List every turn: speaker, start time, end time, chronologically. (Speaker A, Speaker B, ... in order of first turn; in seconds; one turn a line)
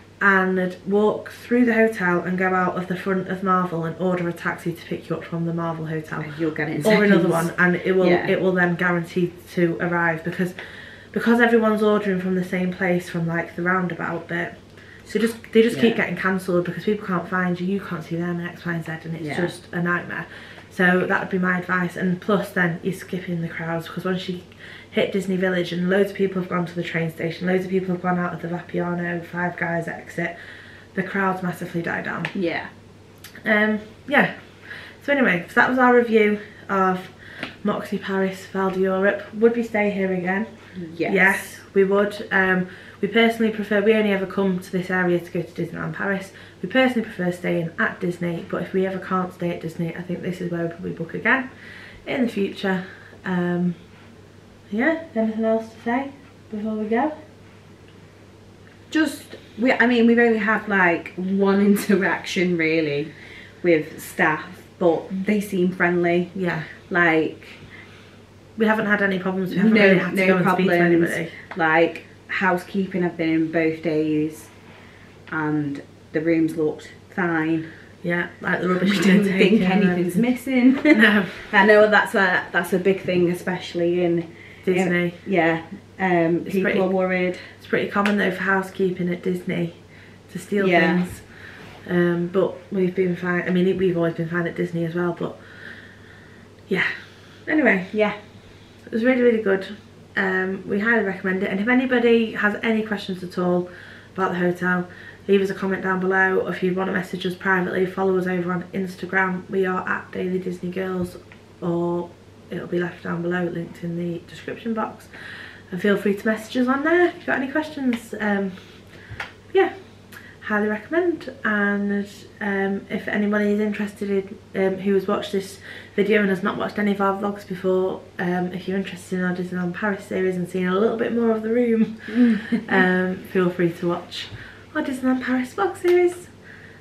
Speaker A: 0.2-32.5
Speaker B: 6.2-8.4
Speaker B: 15.1-16.0
Speaker B: 19.2-19.5
Speaker B: 32.3-32.7
Speaker A: 33.4-57.2
Speaker B: 40.8-41.6
Speaker B: 58.9-67.8
Speaker A: 66.3-66.7
Speaker A: 68.6-71.3
Speaker B: 69.5-74.7
Speaker B: 75.3-78.0
Speaker A: 78.0-81.4
Speaker B: 78.8-87.5
Speaker A: 84.7-85.3
Speaker A: 86.5-98.3
Speaker B: 90.6-91.1
Speaker B: 97.9-98.2
Speaker A: 98.8-136.6
Speaker B: 132.3-132.5